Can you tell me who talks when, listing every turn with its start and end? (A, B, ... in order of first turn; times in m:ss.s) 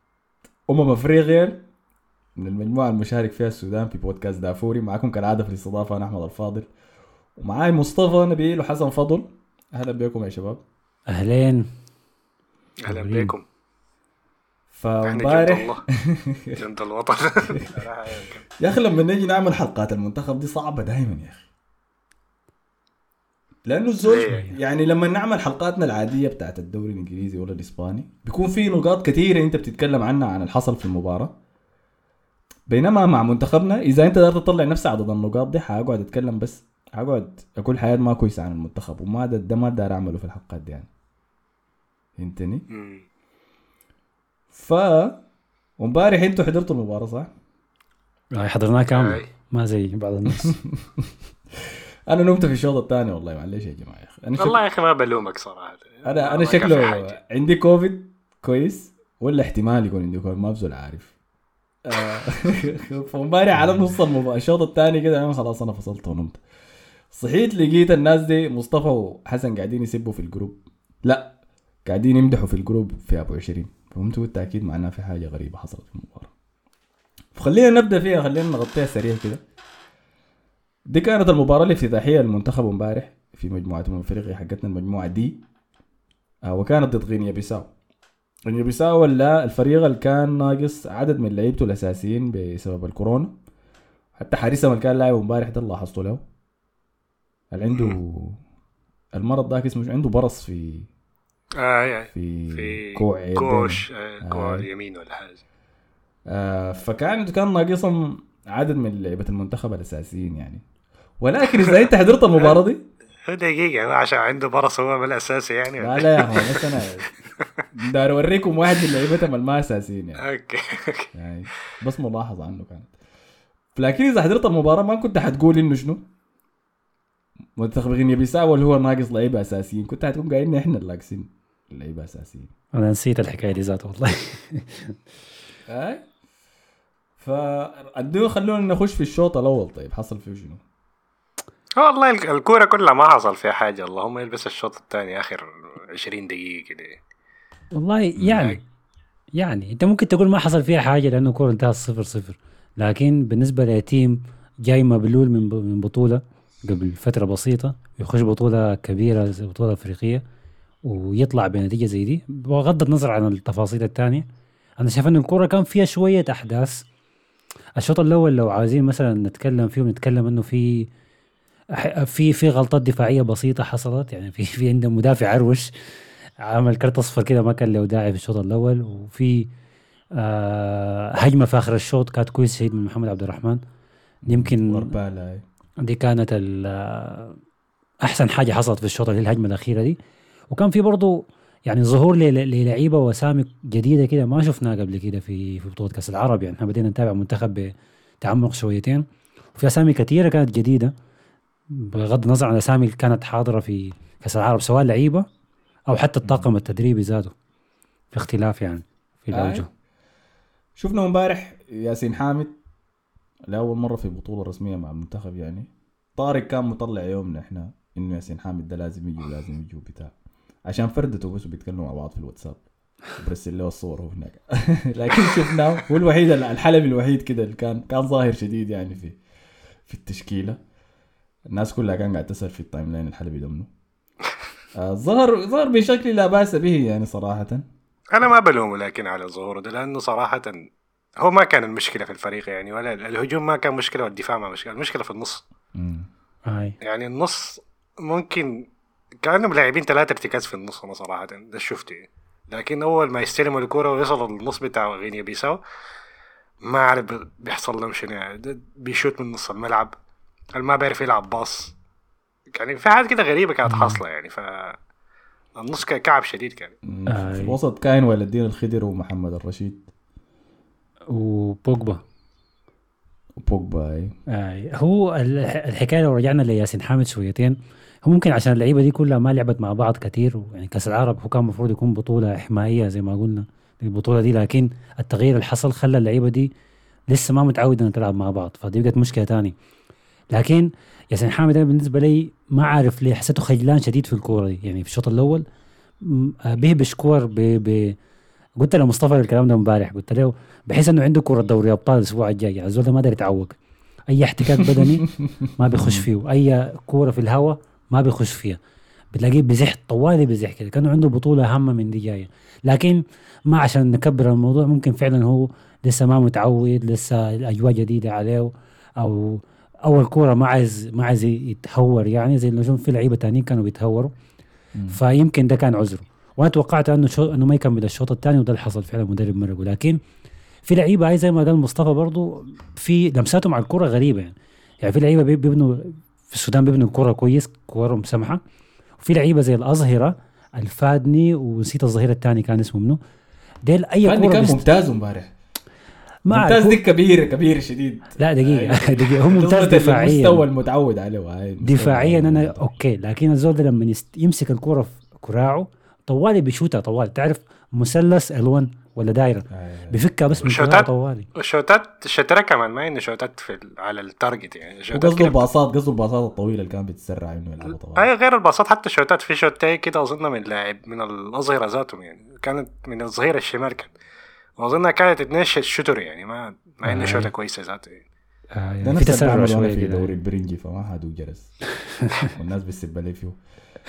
0:00.7-0:01.7 A
0:02.4-0:06.7 A
0:07.4-0:10.6 A
0:11.1-0:11.7 B
0:12.8-0:13.4 C
0:12.9-0:13.3 B
0:14.7-0:16.6 A
0:15.0-0:15.8 C
0:16.6-0:18.4 C
0:18.6-0:21.5 A
0:23.7-0:31.3 A
0:24.0-0:24.4 C
0:24.3-0:24.6 B
0:32.7-0:40.9 A
0:42.2-0:42.7 A
0:42.7-0:43.0 C
0:44.5-0:45.2 A
0:45.8-0:47.3 A
0:48.3-0:50.6 B
0:48.9-0:49.3 C
0:50.3-0:51.1 A
0:52.1-0:54.6 A
0:54.4-0:57.2 C
0:56.0-1:01.1 A
1:01.8-1:06.4 A
1:07.1-1:16.3 A
1:17.4-1:19.4 A
1:20.9-1:25.4 A
1:26.5-1:27.7 A
1:28.5-1:33.3 A
1:34.2-1:36.2 A
1:37.5-1:38.4 A
1:39.1-1:40.9 A
1:41.6-1:45.4 C
1:42.1-1:44.7 A
1:46.3-1:50.6 A
1:51.2-1:52.9 A
1:51.6-1:52.6 C
1:53.3-1:56.9 C
1:55.8-1:57.1 A
1:57.7-2:00.2 A
2:00.2-2:01.1 C
2:01.1-2:02.9 A
2:03.8-2:06.1 A
2:07.6-2:12.5 A
2:12.7-2:15.0 B
2:15.7-2:16.1 A
2:17.2-2:20.6 A
2:21.8-2:27.0 C
2:27.7-2:28.6 B
2:29.3-2:40.2 B
2:40.8-2:44.3 B
2:44.8-2:46.9 B
2:47.8-2:50.9 B
2:51.7-2:55.7 B
2:56.4-2:59.5 B
3:00.2-3:03.6 B
3:04.2-3:05.4 A
3:04.3-3:04.9 B
3:05.8-3:07.4 B
3:08.0-3:10.0 B
3:10.5-3:20.9 B
3:21.7-3:25.3 B
3:25.9-3:27.3 B
3:28.1-3:29.7 B
3:29.3-3:29.7 A
3:30.8-3:32.6 A
3:33.5-3:40.1 A
3:40.7-3:42.6 A
3:43.2-3:49.2 A
3:49.9-3:50.6 A
3:51.5-3:53.7 A
3:54.8-3:57.7 A
3:58.1-4:00.7 C
4:01.2-4:05.4 C
4:05.7-4:06.1 A
4:06.5-4:06.8 B
4:06.8-4:08.7 C
4:09.2-4:15.6 C
4:16.6-4:19.9 C
4:20.6-4:21.8 C
4:22.5-4:24.8 C
4:23.7-4:24.0 B
4:25.6-4:26.7 C
4:26.8-4:29.9 A
4:27.1-4:27.6 B
4:31.1-4:32.0 B
4:33.4-4:34.2 A
4:34.3-4:46.5 B
4:47.1-4:49.6 B
4:50.3-4:55.4 B
4:56.0-4:58.0 B
4:58.6-5:03.6 B
5:04.1-5:08.6 B
5:04.6-5:06.1 A
5:09.1-5:24.1 B
5:24.9-5:30.0 B
5:30.6-5:38.4 B
5:39.0-5:43.0 B
5:43.6-5:44.7 B
5:44.0-5:45.3 A
5:46.3-5:46.8 B
5:46.3-5:52.7 A
5:48.2-5:50.4 B
5:51.6-6:01.3 B
5:59.5-6:00.5 A
6:00.4-6:05.5 C
6:04.9-6:08.1 A
6:08.0-6:13.9 C
6:14.6-6:18.0 C
6:16.8-6:17.3 B
6:18.5-6:20.1 B
6:18.8-6:21.5 A
6:22.3-6:23.4 A